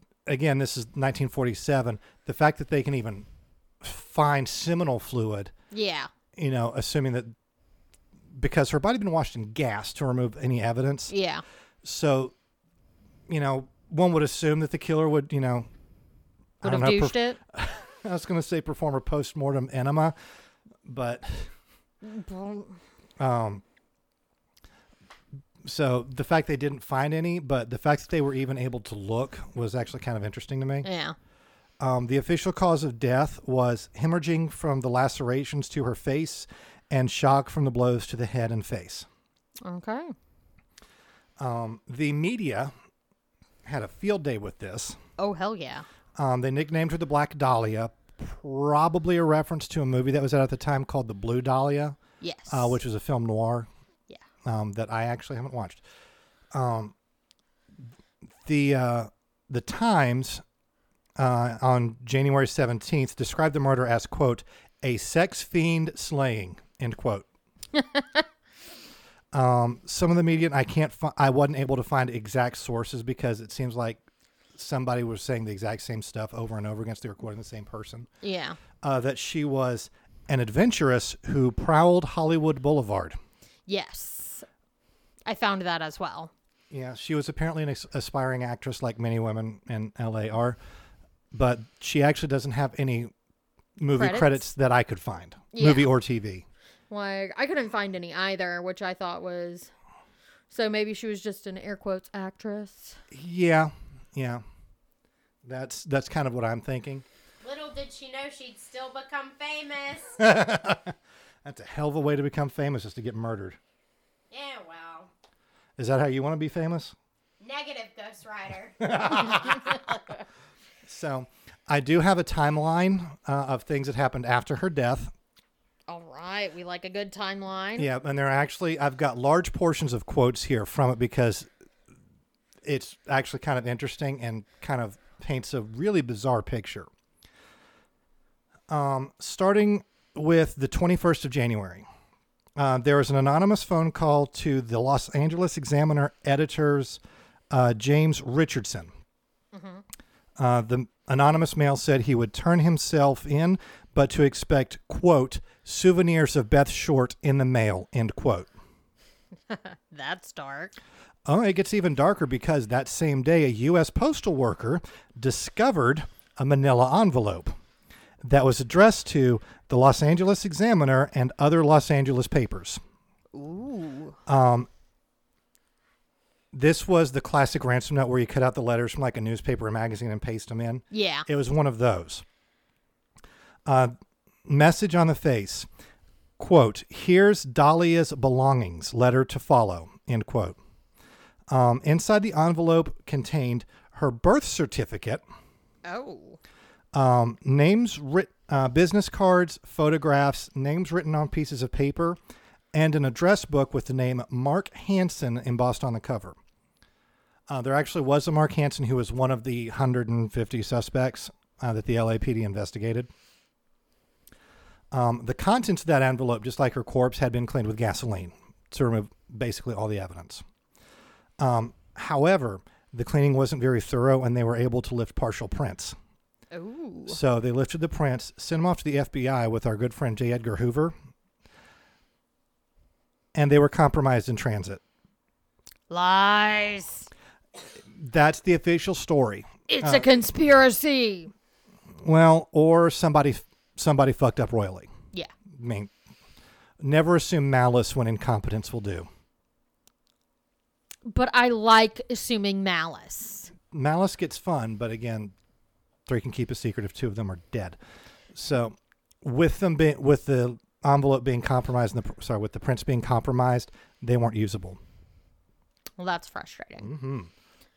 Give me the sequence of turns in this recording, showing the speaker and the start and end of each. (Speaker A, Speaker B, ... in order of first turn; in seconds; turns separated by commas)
Speaker A: 0.2-3.2, Speaker A: 3.8-5.5, Speaker B: 5.7-6.1, Speaker A: 6.3-7.3, Speaker A: 8.3-11.1, Speaker B: 11.1-11.4, Speaker A: 11.8-12.3, Speaker A: 13.3-15.7, Speaker A: 16.6-20.1, Speaker B: 16.6-17.4, Speaker A: 20.8-21.5, Speaker B: 22.0-22.8, Speaker A: 23.2-23.6, Speaker A: 25.6-30.9, Speaker B: 30.8-31.1, Speaker A: 31.8-39.1, Speaker B: 39.6-40.1, Speaker A: 41.4-42.7, Speaker A: 43.6-45.0, Speaker B: 45.2-45.8, Speaker A: 46.2-52.0, Speaker B: 52.2-52.8, Speaker A: 52.5-53.7, Speaker A: 54.4-55.8, Speaker A: 56.5-56.9, Speaker A: 58.4-60.4, Speaker A: 61.2-67.2, Speaker B: 67.8-68.2, Speaker A: 69.3-74.0, Speaker A: 74.5-78.1, Speaker B: 78.2-78.6, Speaker A: 78.8-83.2, Speaker B: 83.7-84.5, Speaker B: 85.2-86.3, Speaker A: 86.7-90.6, Speaker A: 91.3-93.1, Speaker A: 93.8-96.4, Speaker B: 94.0-94.4, Speaker B: 95.5-95.9, Speaker B: 96.9-99.7, Speaker B: 100.5-103.0, Speaker A: 103.1-104.4, Speaker A: 105.4-107.0, Speaker C: 107.4-110.2, Speaker A: 110.2-113.6, Speaker C: 114.3-115.1, Speaker A: 115.8-116.9, Speaker C: 117.4-118.9, Speaker A: 118.8-119.8, Speaker A: 120.8-125.1, Speaker B: 125.9-127.9, Speaker A: 127.8-131.5, Speaker A: 132.6-136.9, Speaker A: 138.7-141.8, Speaker A: 142.6-148.9, Speaker B: 149.5-149.8, Speaker A: 150.4-158.5, Speaker B: 159.5-160.8, Speaker A: 161.2-167.5, Speaker A: 168.2-172.8, Speaker B: 173.3-174.2, Speaker A: 174.3-174.7, Speaker A: 176.5-182.2, Speaker B: 180.9-181.2, Speaker A: 183.7-183.9, Speaker A: 184.4-185.7, Speaker A: 186.4-190.6, Speaker A: 191.5-195.2, Speaker B: 195.8-196.4, Speaker A: 196.9-202.2, Speaker A: 202.7-206.3, Speaker A: 207.5-213.1, Speaker A: 214.9-220.4, Speaker A: 221.4-225.9, Speaker B: 226.5-227.2, Speaker A: 227.1-230.9, Speaker A: 233.3-234.8, Speaker B: 235.9-237.1, Speaker A: 237.8-240.1, Speaker B: 239.7-241.3, Speaker A: 242.0-244.9, Speaker A: 245.5-245.9, Speaker A: 246.8-249.1, Speaker B: 251.1-253.5, Speaker A: 253.7-255.3, Speaker A: 256.1-257.8, Speaker A: 258.3-264.8, Speaker B: 266.0-266.9, Speaker A: 266.8-267.3